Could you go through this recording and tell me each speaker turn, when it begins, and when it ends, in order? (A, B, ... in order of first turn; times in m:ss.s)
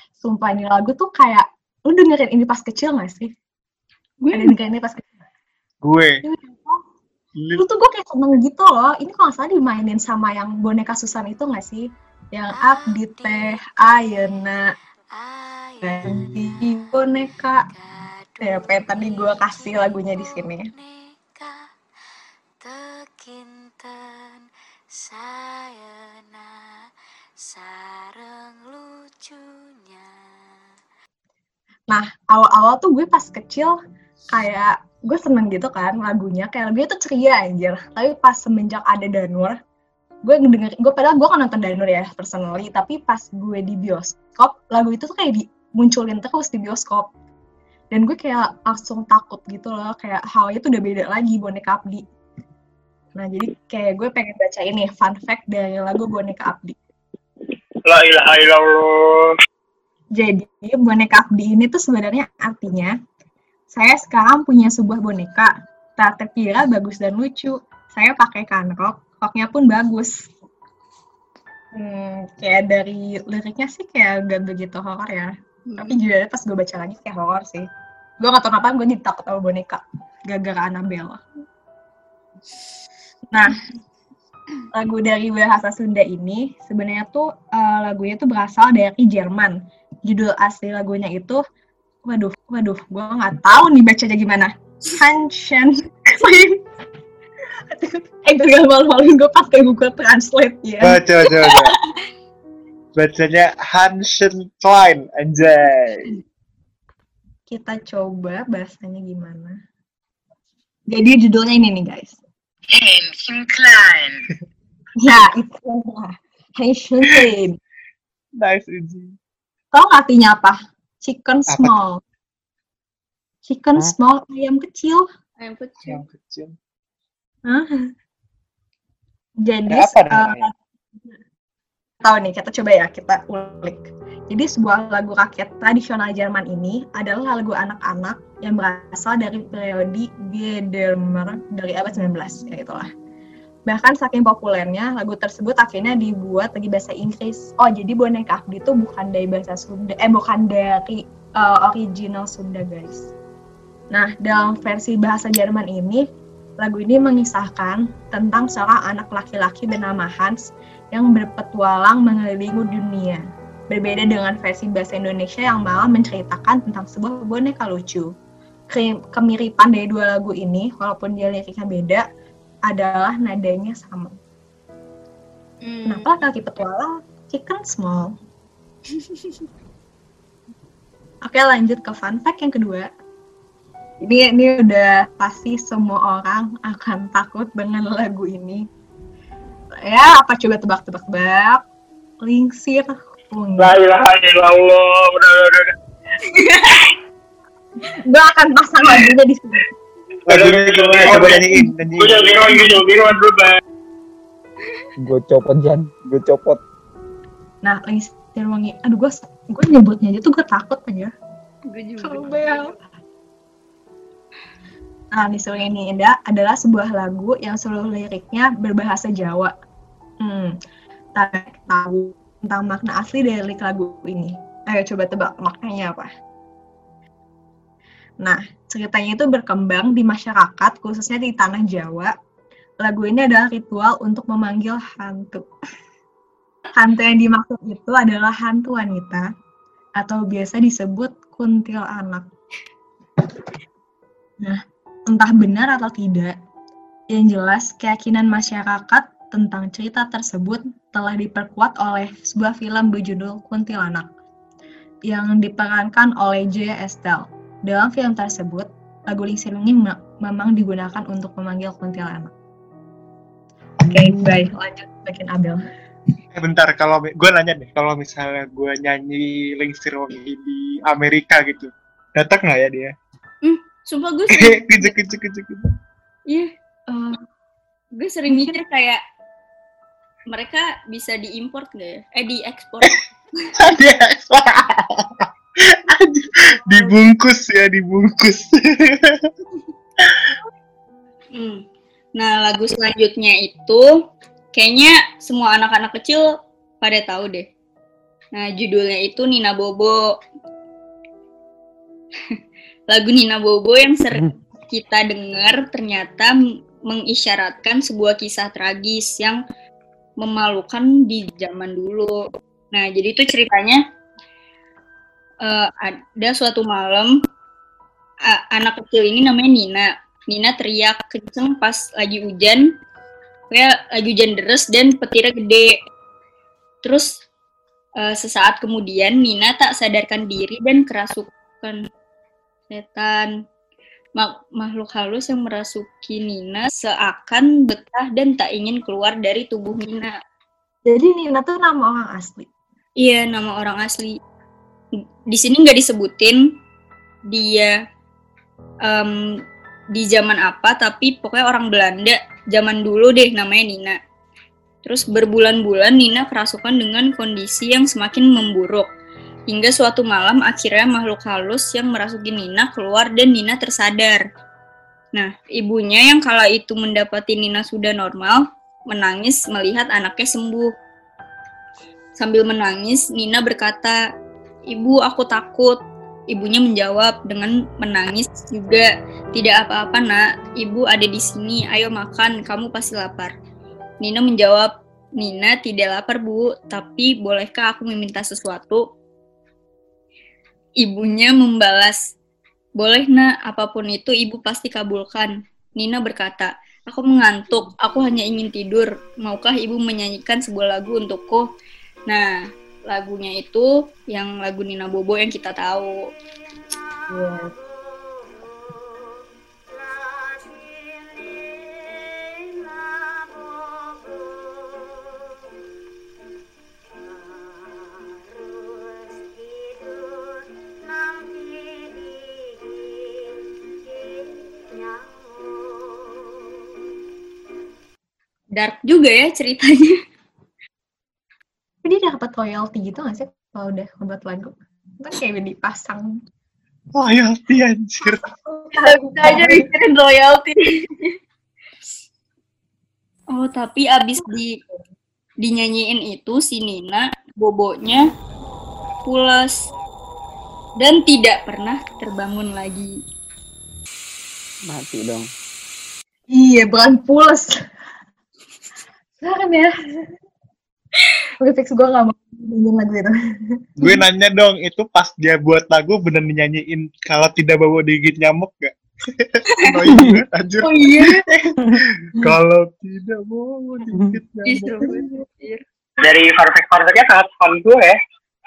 0:00.2-0:03.3 A
0:04.2-0:04.6 B
0:04.3-0:05.1 A
0:05.8-0:06.2 C
0:06.2-0:06.8 A
0:07.4-0:07.6 C
0:07.6-0:14.7 A
0:12.5-0:14.6 D
0:15.2-0:21.7 D
0:15.8-0:17.6 A
0:18.4-0:20.7 A
0:22.6-0:26.7 D
0:27.4-0:30.2 D
0:31.9-0:33.8 A
0:34.3-0:39.6 A
0:40.2-0:47.1 A
0:47.9-0:52.0 A
0:53.2-0:56.8 A
0:57.8-0:59.3 E
1:00.2-1:02.9 A
1:03.7-1:10.3 A
1:11.7-1:17.7 A
1:15.7-1:16.0 B
1:18.2-1:21.2 A
1:23.3-1:23.6 A
1:24.7-1:31.4 A
1:32.0-1:36.6 A
1:37.7-1:41.0 A
1:40.8-1:41.8 C
1:41.4-1:41.7 B
1:42.9-1:46.2 C
1:47.5-1:49.6 A
1:50.9-1:52.2 A
1:55.0-1:57.6 A
1:58.4-1:59.1 C
1:59.7-2:02.0 A
2:01.5-2:01.7 C
2:03.4-2:05.0 A
2:05.4-2:06.0 B
2:05.8-2:06.5 C
2:07.4-2:07.7 A
2:09.4-2:10.5 A
2:09.7-2:10.5 C
2:12.0-2:22.9 A
2:23.7-2:33.1 A
2:33.9-2:36.0 A
2:36.6-2:48.1 A
2:48.7-2:52.0 A
2:52.7-2:54.1 A
2:55.6-2:56.1 B
2:55.8-2:58.1 A
2:59.0-2:59.2 B
3:01.2-3:02.9 A
3:04.0-3:08.6 A
3:09.8-3:11.6 A
3:12.2-3:13.7 A
3:13.6-3:15.7 E
3:16.3-3:16.6 B
3:17.9-3:19.7 A
3:20.2-3:22.7 C
3:20.3-3:23.6 E
3:25.0-3:26.6 F
3:27.6-3:31.1 A
3:31.7-3:32.7 B
3:32.0-3:32.7 A
3:35.1-3:39.5 A
3:40.2-3:40.6 A
3:41.2-3:46.1 A
3:48.2-3:52.1 A
3:52.8-3:55.4 A
3:56.7-3:59.3 A
4:00.0-4:02.3 A
4:04.4-4:06.3 A
4:07.1-4:14.0 A
4:15.1-4:22.3 A
4:23.8-4:25.6 A
4:26.3-4:32.9 C
4:33.4-4:35.0 B
4:34.3-4:35.7 C
4:36.9-4:37.2 A
4:38.0-4:39.0 B
4:38.3-4:38.5 A
4:40.3-4:43.5 B
4:43.6-4:49.3 C
4:50.0-4:50.3 C
4:51.3-4:51.6 B
4:52.2-4:53.9 B
4:54.5-4:56.3 B
4:56.8-4:57.5 B
4:58.3-5:00.0 B
5:02.9-5:09.4 B
5:10.2-5:12.2 B
5:12.7-5:13.8 B
5:15.4-5:17.2 B
5:18.3-5:22.7 B
5:23.5-5:25.7 B
5:26.8-5:27.2 B
5:28.0-5:31.8 B
5:32.7-5:33.3 B
5:34.2-5:40.2 B
5:40.8-5:42.5 A
5:43.0-5:44.2 B
5:45.3-5:46.5 B
5:47.3-5:47.7 B
5:48.8-5:49.4 B
5:49.9-5:54.0 B
5:54.8-5:58.9 B
5:59.5-6:04.2 B
6:05.1-6:10.7 B
6:12.2-6:14.0 B
6:14.7-6:15.8 B
6:16.3-6:23.3 B
6:24.0-6:28.8 B
6:30.8-6:32.1 B
6:32.8-6:41.5 B
6:42.1-6:46.0 B
6:47.1-6:47.5 A
7:01.1-7:01.4 D
7:08.5-7:10.0 B
7:11.8-7:16.2 A
7:16.9-7:18.2 C
7:18.1-7:19.7 A
7:18.7-7:21.1 B
7:23.3-7:24.6 B
7:25.4-7:28.1 B
7:29.0-7:29.6 B
7:30.8-7:33.0 B
7:34.6-7:35.3 F
7:36.3-7:37.5 A
7:39.2-7:40.1 A
7:41.4-7:44.0 A
7:43.8-7:54.9 C
7:50.6-7:51.2 B
7:54.4-7:55.6 B
7:54.9-7:55.2 A
7:56.0-7:58.0 E